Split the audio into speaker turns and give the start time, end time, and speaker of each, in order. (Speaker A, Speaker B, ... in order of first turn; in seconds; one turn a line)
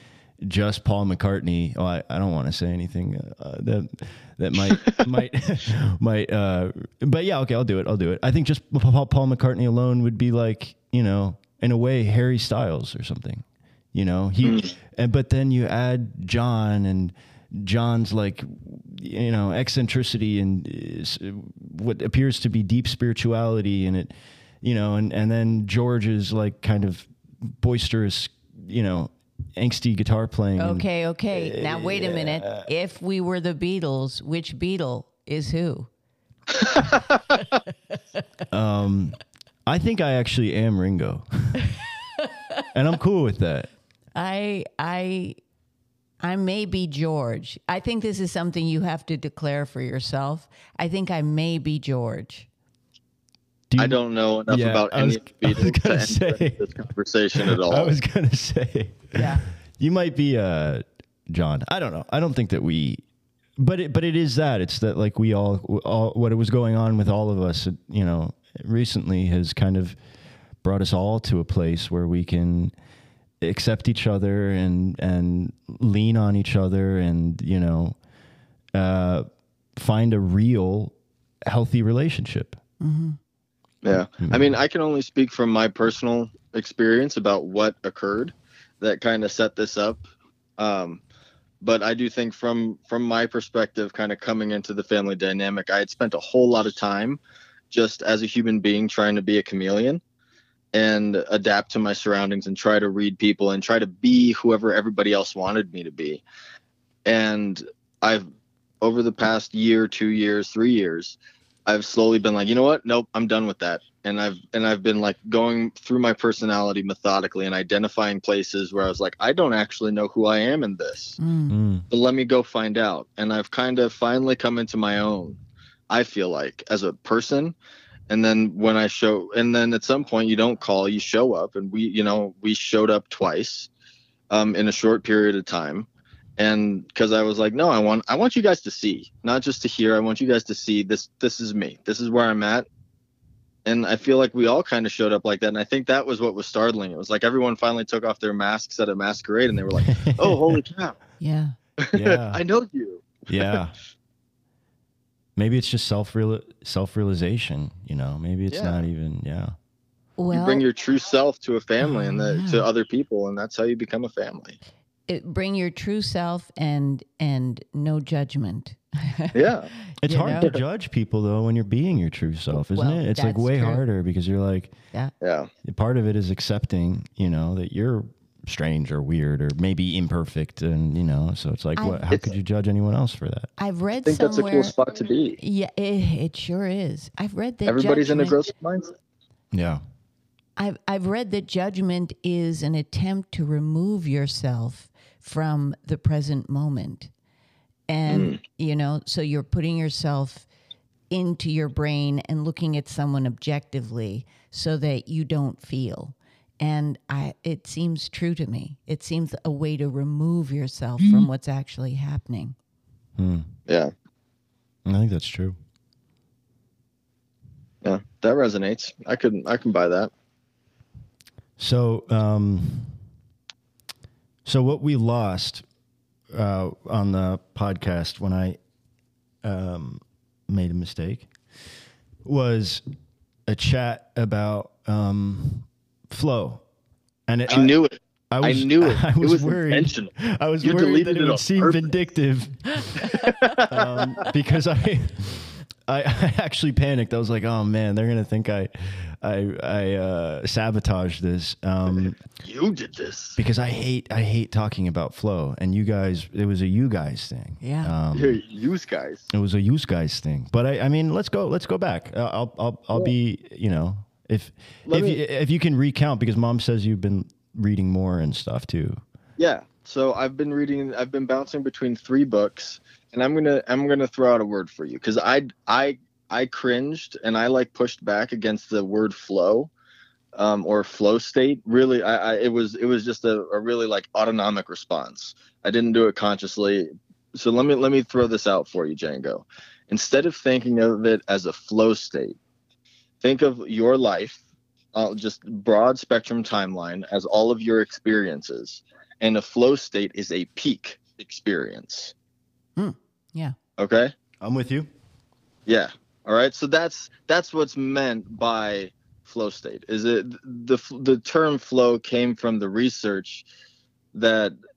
Speaker A: 0.4-32.7
Speaker B: 14.4-14.7
Speaker C: 30.6-35.9
Speaker A: 38.5-41.6
Speaker A: 42.7-43.7
Speaker C: 44.1-45.4
Speaker C: 46.2-52.5
Speaker A: 53.7-56.7
Speaker B: 53.8-58.0
Speaker A: 57.4-63.0
Speaker C: 59.1-59.4
Speaker A: 63.6-70.0
Speaker A: 70.6-72.8
Speaker A: 73.4-78.0
Speaker A: 78.7-82.6
Speaker C: 82.8-83.2
Speaker B: 83.8-90.0
Speaker A: 84.2-84.5
Speaker B: 90.6-91.0
Speaker B: 91.6-97.2
Speaker B: 97.7-100.0
Speaker B: 100.7-106.2
Speaker B: 107.0-108.3
Speaker B: 108.8-121.2
Speaker C: 121.2-121.5
Speaker A: 121.5-121.8
Speaker B: 121.9-125.4
Speaker B: 125.9-127.6
Speaker B: 128.1-133.7
Speaker B: 134.3-142.7
Speaker B: 143.7-151.0
Speaker A: 149.8-150.6
Speaker C: 151.2-151.6
Speaker B: 151.8-153.6
Speaker A: 151.9-152.4
Speaker A: 153.3-153.8
Speaker A: 155.4-159.6
Speaker B: 158.5-158.8
Speaker C: 160.2-160.6
Speaker B: 160.3-164.6
Speaker C: 161.8-162.7
Speaker C: 165.1-170.5
Speaker B: 169.3-169.7
Speaker A: 170.0-174.7
Speaker C: 172.6-173.8
Speaker B: 175.2-175.5
Speaker A: 175.7-183.5
Speaker C: 181.8-182.1
Speaker C: 183.6-184.7
Speaker B: 184.0-185.4
Speaker C: 185.4-188.4
Speaker B: 187.7-188.9
Speaker A: 189.5-189.8
Speaker C: 190.6-197.1
Speaker C: 197.9-200.5
Speaker B: 198.1-198.4
Speaker C: 201.1-212.6
Speaker A: 213.2-213.5
Speaker A: 214.9-215.6
Speaker B: 217.8-220.1
Speaker A: 221.6-223.0
Speaker A: 224.4-225.6
Speaker A: 226.3-228.6
Speaker A: 229.4-231.4
Speaker A: 232.2-232.8
Speaker A: 233.5-236.6
Speaker A: 237.3-237.8
Speaker B: 237.5-241.9
Speaker A: 238.3-252.2
Speaker B: 243.1-244.2
Speaker B: 252.2-253.4
Speaker A: 253.4-258.4
Speaker C: 257.6-257.9
Speaker B: 258.1-259.3
Speaker A: 259.3-269.0
Speaker B: 264.9-265.2
Speaker B: 269.4-279.7
Speaker B: 280.3-292.4
Speaker B: 293.2-294.4
Speaker B: 294.9-302.1
Speaker C: 302.8-303.6
Speaker B: 303.8-304.1
Speaker A: 304.4-304.9
Speaker B: 305.7-313.5
Speaker B: 314.1-314.6